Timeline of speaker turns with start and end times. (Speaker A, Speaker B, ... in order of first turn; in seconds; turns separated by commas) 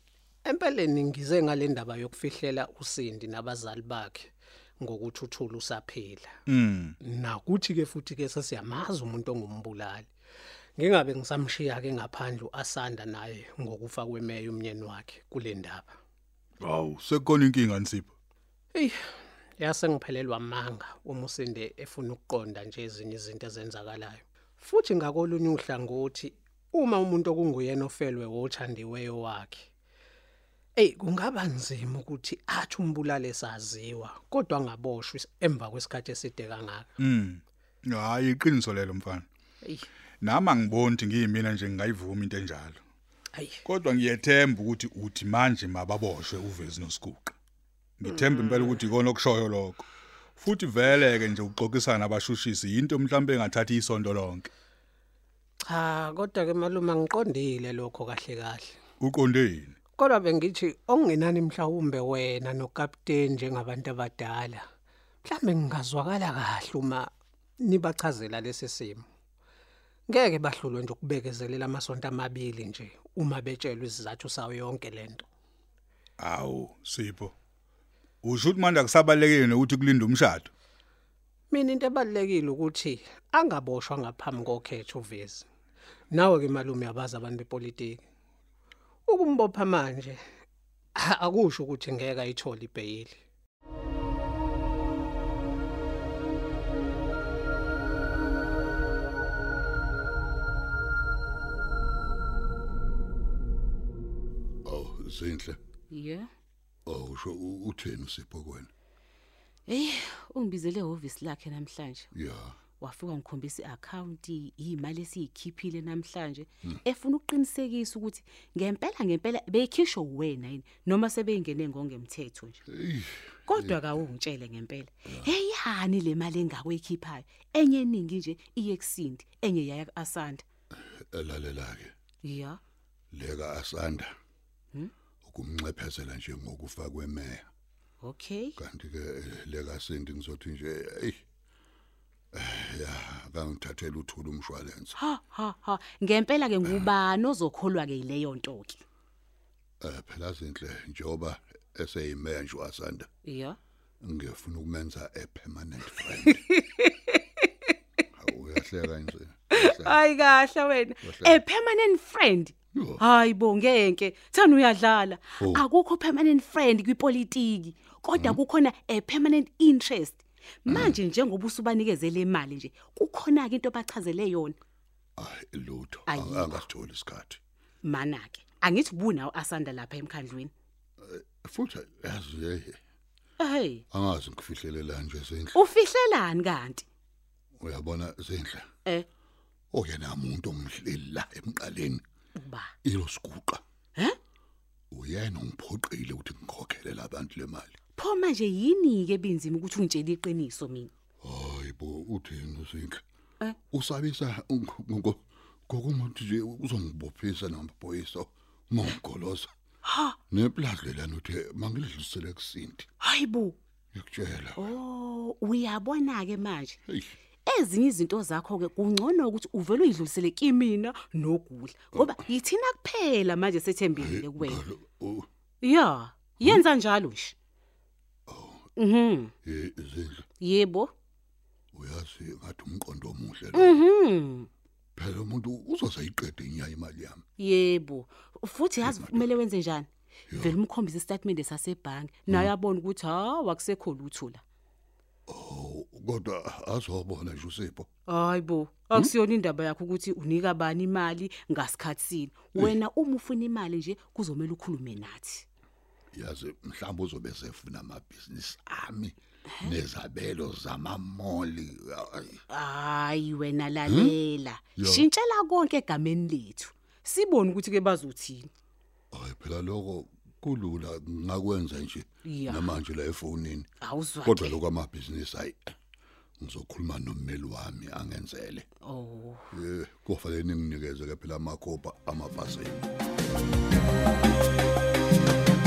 Speaker A: 0.5-6.3, Speaker B: 6.5-7.0, Speaker A: 7.0-10.1, Speaker A: 10.8-16.0, Speaker B: 16.6-18.1, Speaker A: 19.6-29.7, Speaker A: 30.8-36.9, Speaker B: 37.0-39.2, Speaker B: 40.2-42.8, Speaker A: 43.4-43.6, Speaker B: 43.6-47.3, Speaker B: 48.0-49.9, Speaker B: 50.4-54.5, Speaker A: 55.7-58.7, Speaker B: 59.0-59.8, Speaker A: 60.0-64.6, Speaker A: 65.2-69.0, Speaker A: 70.1-75.2, Speaker B: 76.2-77.3, Speaker B: 78.2-80.5, Speaker A: 81.5-85.5, Speaker A: 86.1-88.0, Speaker A: 89.1-90.2, Speaker A: 91.0-93.2, Speaker C: 104.6-105.6, Speaker D: 105.9-106.3, Speaker C: 106.9-108.7, Speaker D: 109.7-112.1, Speaker C: 112.1-112.6, Speaker D: 112.8-122.6, Speaker C: 122.7-124.0, Speaker D: 123.5-130.4, Speaker C: 131.1-131.9, Speaker D: 132.2-132.6, Speaker C: 133.1-134.1, Speaker C: 135.2-137.5, Speaker D: 138.0-138.6, Speaker C: 138.6-141.2, Speaker C: 142.3-145.0, Speaker D: 145.0-148.8, Speaker C: 146.6-146.9, Speaker C: 149.8-153.1, Speaker D: 153.2-153.6, Speaker C: 154.0-156.4, Speaker D: 156.3-157.5, Speaker C: 158.2-160.0, Speaker D: 159.5-174.6, Speaker C: 161.0-161.4, Speaker C: 162.8-163.0, Speaker C: 165.4-165.6, Speaker C: 168.2-168.4, Speaker C: 170.7-171.0, Speaker C: 175.2-177.4, Speaker D: 176.1-176.6, Speaker D: 177.8-180.5, Speaker C: 181.0-182.8, Speaker D: 183.4-183.8, Speaker C: 183.9-185.6, Speaker D: 185.5-186.8, Speaker C: 187.6-188.7, Speaker C: 189.7-192.0, Speaker D: 192.4-192.7, Speaker C: 192.8-193.6, Speaker C: 194.9-197.8, Speaker D: 198.0-200.9, Speaker C: 201.2-203.0, Speaker C: 203.7-209.5, Speaker D: 209.8-210.2, Speaker C: 210.3-212.9, Speaker D: 213.0-213.6, Speaker C: 213.9-214.7, Speaker D: 214.6-216.8, Speaker C: 216.9-217.1, Speaker D: 217.5-224.6, Speaker C: 221.9-222.2, Speaker C: 224.0-225.3, Speaker D: 225.6-227.3, Speaker C: 226.4-226.7, Speaker C: 228.3-228.7, Speaker D: 228.8-229.3, Speaker C: 229.4-230.2, Speaker D: 230.4-230.9, Speaker C: 231.7-233.8, Speaker D: 233.5-234.5, Speaker C: 235.0-237.2, Speaker D: 237.4-244.4, Speaker C: 238.8-239.3, Speaker C: 240.3-240.6, Speaker C: 245.3-247.9, Speaker D: 248.1-255.4, Speaker C: 256.1-262.4, Speaker D: 262.5-268.5, Speaker C: 263.9-264.1, Speaker C: 264.8-265.1, Speaker C: 269.1-273.7, Speaker D: 272.3-272.8, Speaker D: 273.8-274.6, Speaker C: 274.2-275.7, Speaker C: 276.4-278.6, Speaker D: 278.9-279.4, Speaker C: 279.5-282.9